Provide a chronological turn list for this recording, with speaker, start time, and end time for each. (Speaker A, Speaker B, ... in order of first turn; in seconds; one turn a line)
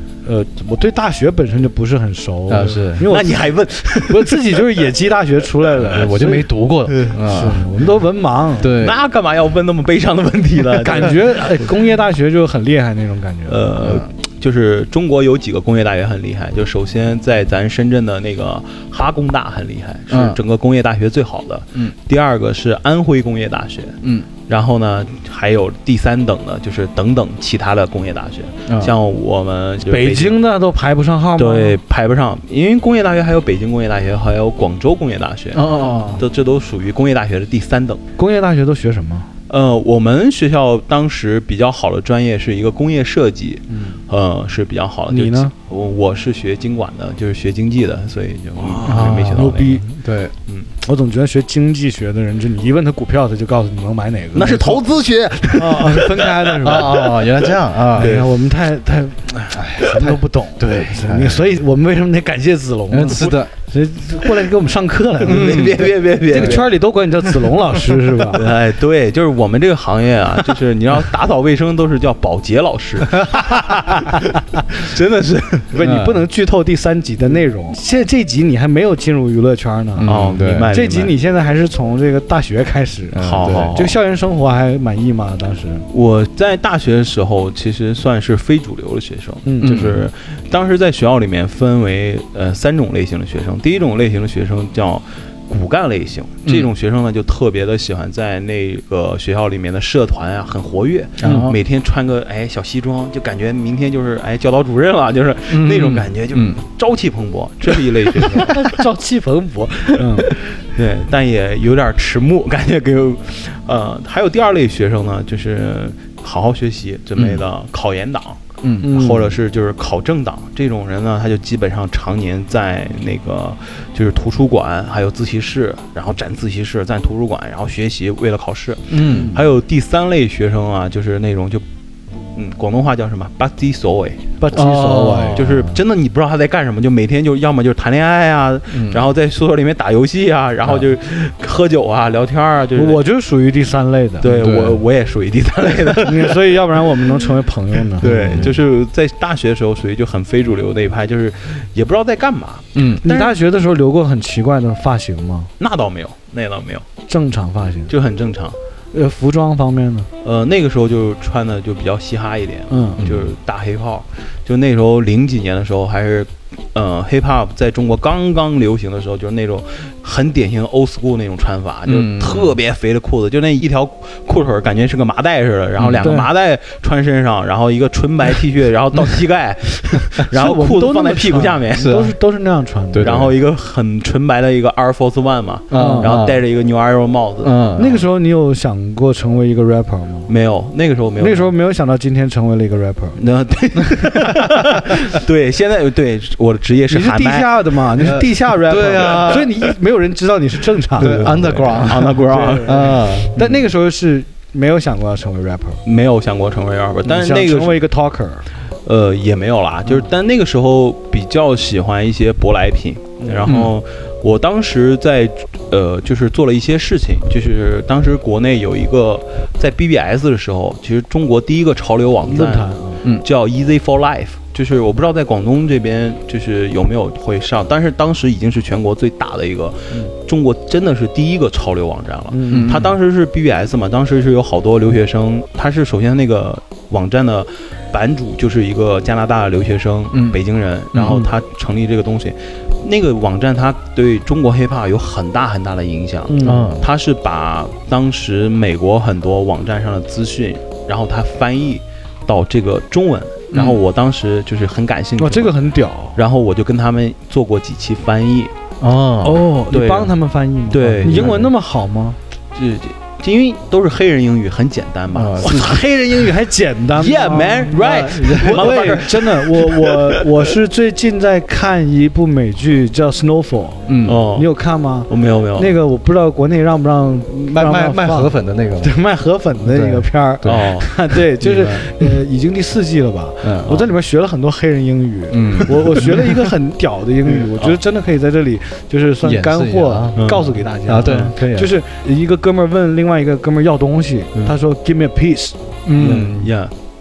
Speaker A: 0.2-3.5
Speaker B: 2.5-3.0
Speaker C: 3.1-4.6
Speaker A: 4.0-6.5
Speaker B: 5.8-7.7
Speaker A: 7.1-8.8
Speaker B: 8.6-9.0
Speaker C: 8.8-11.4
Speaker A: 10.7-13.6
Speaker C: 13.5-30.4
Speaker B: 13.8-14.1
Speaker B: 20.1-20.4
Speaker B: 24.0-24.3
Speaker B: 28.7-28.9
Speaker A: 29.9-31.8
Speaker C: 31.4-38.0
Speaker B: 35.5-36.2
Speaker A: 35.8-36.2
Speaker A: 38.2-39.3
Speaker C: 39.5-49.8
Speaker A: 45.1-45.5
Speaker A: 48.6-49.9
Speaker B: 48.8-50.3
Speaker A: 50.8-54.8
Speaker C: 54.3-56.9
Speaker A: 55.5-57.2
Speaker B: 56.6-58.2
Speaker A: 58.0-68.4
Speaker C: 58.0-58.3
Speaker B: 59.5-61.5
Speaker B: 62.9-63.5
Speaker C: 63.1-63.4
Speaker B: 65.2-66.7
Speaker C: 65.2-66.7
Speaker C: 68.3-75.7
Speaker B: 73.1-74.2
Speaker A: 75.7-80.2
Speaker B: 75.8-76.3
Speaker B: 80.0-80.7
Speaker C: 80.0-81.1
Speaker A: 80.7-85.8
Speaker B: 83.1-83.9
Speaker C: 83.2-83.9
Speaker C: 85.9-108.7
Speaker A: 89.5-89.8
Speaker B: 89.6-90.0
Speaker B: 96.4-96.7
Speaker A: 101.2-101.5
Speaker B: 101.2-101.6
Speaker B: 105.5-106.6
Speaker B: 108.1-108.5
Speaker A: 108.4-110.3
Speaker C: 110.2-131.6
Speaker B: 117.2-117.4
Speaker B: 118.6-118.9
Speaker A: 118.8-119.3
Speaker B: 128.9-129.4
Speaker A: 129.0-129.4
Speaker C: 132.3-134.3
Speaker A: 134.4-135.4
Speaker B: 134.5-135.8
Speaker C: 135.3-143.0
Speaker B: 138.7-139.0
Speaker A: 142.8-144.2
Speaker C: 144.2-147.0
Speaker B: 144.2-144.8
Speaker A: 146.0-148.5
Speaker C: 148.0-153.4
Speaker B: 148.0-148.6
Speaker B: 152.7-153.0
Speaker A: 153.0-155.5
Speaker C: 155.6-156.8
Speaker A: 157.1-157.9
Speaker C: 157.9-158.6
Speaker A: 158.9-160.1
Speaker C: 160.2-182.0
Speaker A: 162.7-163.1
Speaker B: 163.0-163.3
Speaker B: 171.8-172.6
Speaker B: 175.8-176.2
Speaker A: 176.0-176.3
Speaker A: 180.3-183.3
Speaker B: 181.7-182.2
Speaker B: 182.9-183.3
Speaker C: 183.0-187.7
Speaker B: 185.7-186.4
Speaker A: 185.7-186.2
Speaker B: 187.4-188.0
Speaker A: 187.8-190.3
Speaker C: 190.3-191.5
Speaker A: 191.2-193.2
Speaker C: 193.2-198.2
Speaker A: 196.9-205.8
Speaker B: 198.0-199.5
Speaker C: 199.1-199.3
Speaker B: 201.0-203.3
Speaker C: 201.0-203.6
Speaker C: 205.8-207.8
Speaker A: 207.1-208.5
Speaker C: 208.8-255.5
Speaker A: 209.8-210.1
Speaker A: 213.2-213.6
Speaker B: 213.5-213.7
Speaker A: 222.2-223.0
Speaker A: 232.3-232.8
Speaker B: 232.5-232.9
Speaker B: 240.1-240.4
Speaker B: 240.9-241.3
Speaker A: 246.3-246.8
Speaker B: 246.4-246.9
Speaker B: 253.5-253.8
Speaker A: 255.2-256.2
Speaker C: 256.1-258.5
Speaker B: 258.8-259.4
Speaker A: 259.2-262.2
Speaker C: 259.7-260.1
Speaker C: 260.7-261.4
Speaker B: 260.7-261.5
Speaker C: 262.5-265.8
Speaker B: 265.1-265.8
Speaker A: 265.4-296.3
Speaker C: 267.0-270.2
Speaker B: 267.7-269.0
Speaker B: 273.9-274.2
Speaker C: 274.0-274.5
Speaker C: 275.1-275.8
Speaker B: 277.5-278.9
Speaker B: 279.6-282.1
Speaker C: 280.4-281.0
Speaker B: 283.4-283.9
Speaker B: 285.3-286.5
Speaker B: 289.2-291.8
Speaker C: 290.1-291.3
Speaker B: 295.9-296.5
Speaker C: 296.0-296.7